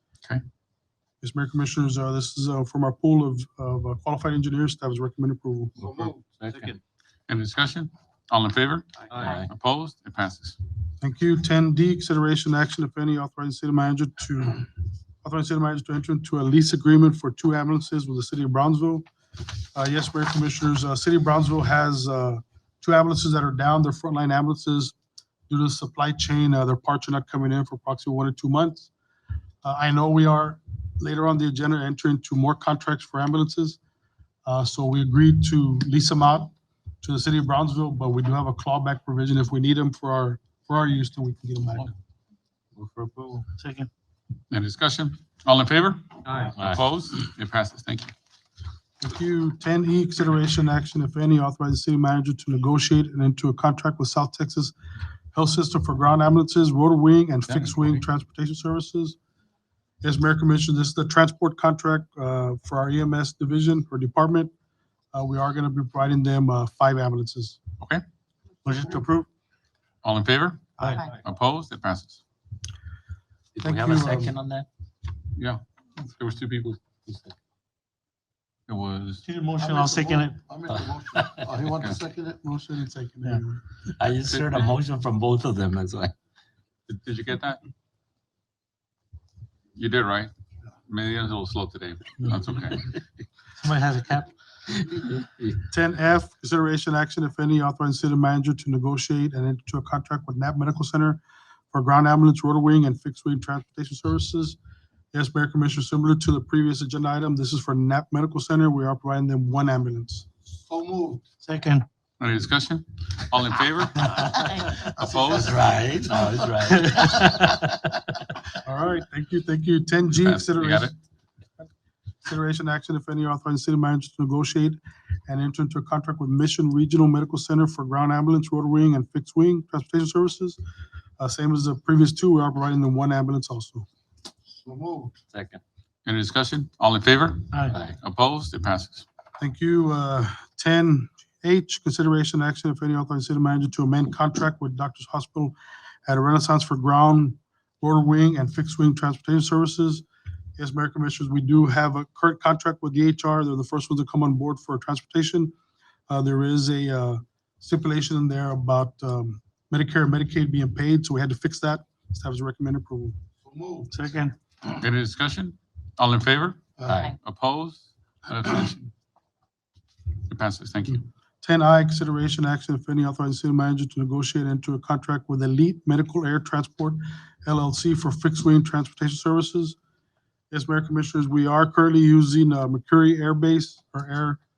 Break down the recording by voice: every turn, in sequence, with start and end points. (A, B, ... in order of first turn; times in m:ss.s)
0:01.2-0:05.9 A
0:05.8-0:06.7 B
0:06.4-0:06.7 C
0:07.3-0:10.6 D
0:09.1-0:09.5 C
0:11.0-0:14.7 A
0:15.2-0:19.0 A
0:19.7-0:24.9 A
0:25.5-0:28.9 A
0:29.6-0:33.8 A
0:34.4-0:41.9 A
0:42.8-0:43.4 C
0:43.4-0:43.9 E
0:44.5-0:48.1 D
0:46.4-0:46.8 C
0:49.0-0:54.8 A
0:55.3-0:59.2 A
1:00.0-1:04.5 A
1:05.1-1:07.6 A
1:08.6-1:09.3 E
1:10.0-1:12.2 D
1:10.8-1:11.1 E
1:13.6-1:14.7 C
1:13.6-1:14.3 A
1:15.4-1:16.8 D
1:18.7-1:19.2 D
1:19.2-1:20.4 E
1:19.6-1:22.4 B
1:20.9-1:21.5 C
1:22.4-1:23.6 A
1:24.0-1:26.1 C
1:24.2-1:24.7 D
1:26.9-1:27.6 D
1:29.8-1:30.3 D
1:30.9-1:32.9 D
1:33.6-1:34.3 E
1:34.9-1:35.6 C
1:35.7-1:41.2 A
1:41.7-1:44.6 A
1:45.1-1:50.3 A
1:50.5-1:51.2 B
1:51.4-1:51.8 E
1:52.2-1:55.6 D
1:54.3-1:54.6 C
1:55.2-1:58.0 C
1:56.7-1:57.3 E
1:58.6-2:00.9 A
2:00.1-2:00.9 D
2:02.2-2:10.6 A
2:11.2-2:13.9 A
2:14.6-2:15.1 B
2:15.3-2:15.6 C
2:16.0-2:19.0 D
2:19.4-2:25.5 A
2:26.1-2:30.0 A
2:30.6-2:35.5 A
2:36.1-2:43.2 A
2:43.4-2:44.0 B
2:43.9-2:44.3 E
2:44.7-2:48.9 D
2:46.9-2:47.1 C
2:50.3-2:51.0 D
2:51.4-2:59.8 A
3:00.5-3:04.4 A